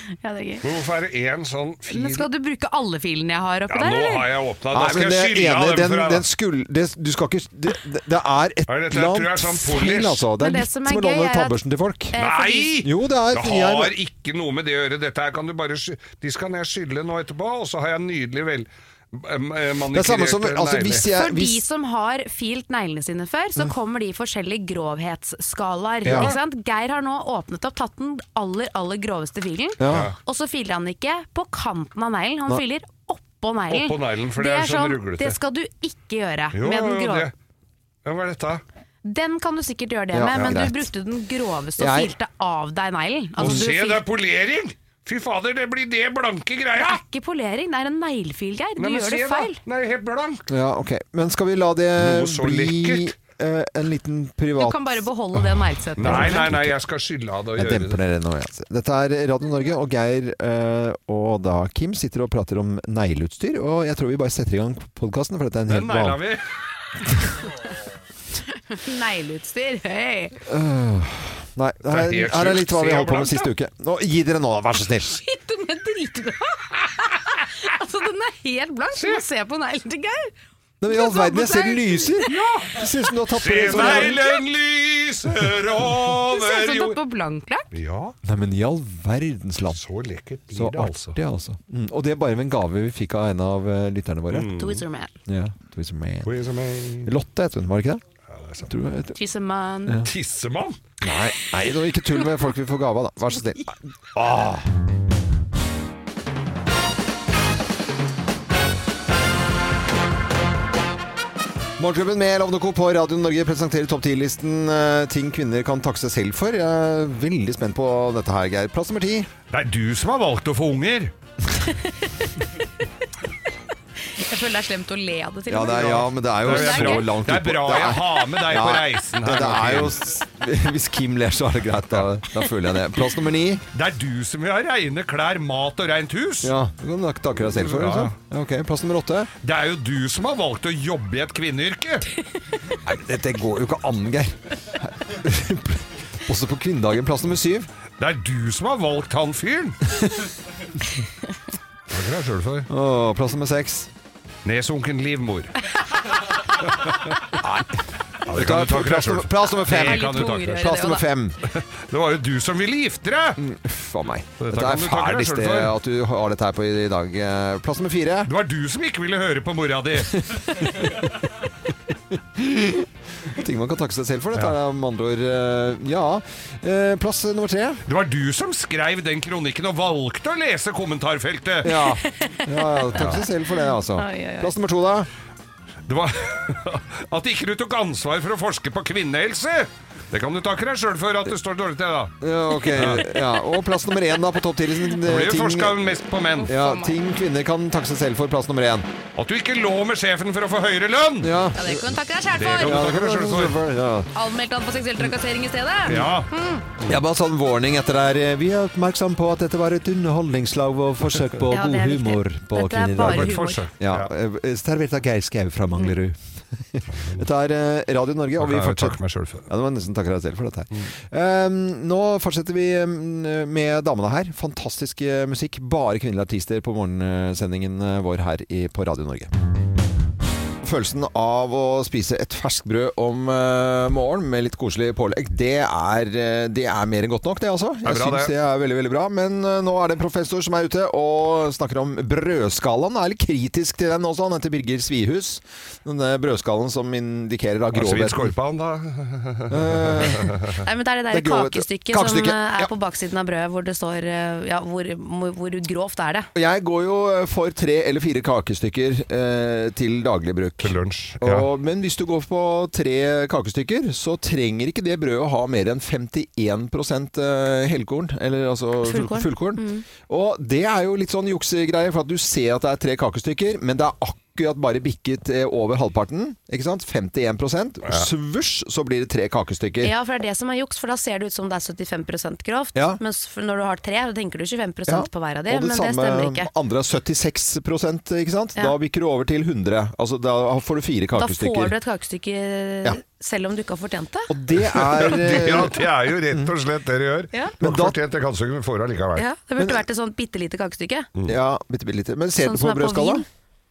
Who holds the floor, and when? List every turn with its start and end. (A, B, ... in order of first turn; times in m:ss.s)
0:00.2-0:00.6 A
0:00.6-0:02.3 B
0:01.9-0:04.3 A
0:03.7-0:06.2 B
0:04.7-0:12.1 C
0:08.7-0:10.2 B
0:10.4-0:11.6 A
0:12.1-0:12.8 A
0:12.1-0:21.1 B
0:12.8-0:13.9 C
0:19.9-0:21.6 C
0:21.1-0:37.3 A
0:26.0-0:26.3 C
0:26.1-0:26.4 B
0:29.8-0:30.1 C
0:29.9-0:30.2 B
0:33.7-0:35.4 B
0:36.5-0:37.3 B
0:38.0-0:38.6 B
0:39.0-0:44.0 A
0:40.1-0:40.9 C
0:41.8-0:42.1 C
0:43.4-0:47.0 B
0:46.8-0:49.6 A
0:48.8-0:50.5 B
0:50.5-0:55.0 C
0:52.0-0:53.1 B
0:54.6-0:56.5 A
0:56.0-0:56.7 C
0:56.0-0:58.0 B
0:57.6-1:06.2 C
1:05.7-1:06.4 B
1:08.7-1:10.4 A
1:10.5-1:15.2 C
1:11.9-1:13.5 B
1:15.1-1:20.3 A
1:18.9-1:19.2 B
1:20.8-1:24.1 C
1:20.9-1:22.3 A
1:22.2-1:27.0 B
1:23.7-1:24.4 A
1:26.3-1:27.7 A
1:27.7-1:28.2 B
1:28.2-1:29.8 C
1:29.7-1:31.2 B
1:30.5-1:34.5 C
1:34.3-1:34.8 B
1:34.5-1:35.1 A
1:35.3-1:36.3 C
1:36.2-1:37.1 B
1:37.0-1:38.0 C
1:38.3-1:38.7 B
1:38.6-1:39.2 C
1:39.2-1:40.0 A
1:40.0-1:40.8 B
1:41.0-1:43.8 C
1:44.1-1:44.6 B
1:51.8-1:59.3 C
1:59.5-2:01.1 B
2:04.2-2:07.1 A
2:05.5-2:13.6 C
2:05.7-2:10.0 B
2:13.7-2:16.5 B
2:16.4-2:19.3 C
2:17.4-2:18.2 B
2:19.4-2:22.1 B
2:22.8-2:27.7 C
2:28.0-2:29.8 B
2:31.9-2:32.7 B
2:32.7-2:33.9 C
2:34.4-2:35.5 B
2:36.6-2:37.3 B
2:37.4-2:37.7 C
2:38.2-2:40.8 B
2:38.3-2:41.4 C
2:39.6-2:41.1 A
2:41.4-2:43.4 B
2:43.4-2:48.3 C
2:44.4-2:45.8 B
2:48.2-2:50.4 B
2:50.2-2:51.1 C
2:52.4-2:57.8 C
2:57.8-3:01.8 B
3:01.6-3:05.1 C
3:02.0-3:02.5 A
3:02.9-3:03.3 B
3:03.5-3:04.5 A
3:05.8-3:13.2 B
3:12.2-3:15.8 C
3:15.0-3:16.5 B
3:16.4-3:17.0 A
3:16.5-3:18.9 C
3:19.1-3:21.4 B
3:21.2-3:21.9 C
3:21.6-3:22.8 A
3:22.3-3:23.6 B
3:22.6-3:24.1 C
3:24.1-3:26.6 A
3:25.8-3:26.3 B
3:26.9-3:36.2 C
3:31.5-3:33.6 A
3:33.0-3:34.1 B
3:36.7-3:49.3 C
3:36.9-3:37.2 B
3:38.4-3:39.5 B
3:50.6-4:08.3 C
3:57.8-3:58.3 B
4:07.7-4:10.5 B
4:09.5-4:10.3 C
4:10.6-4:16.3 A
4:11.1-4:12.7 C
4:16.3-4:39.9 C
4:20.6-4:21.5 B
4:28.8-4:29.8 A
4:37.8-4:38.1 B
4:39.8-4:46.5 A
4:44.9-4:51.7 C
4:51.2-4:54.3 A
4:54.3-4:56.5 C
4:54.6-4:59.2 B
4:57.6-4:58.0 C
4:59.2-5:01.1 A
5:01.2-5:03.2 C
5:02.4-5:03.2 A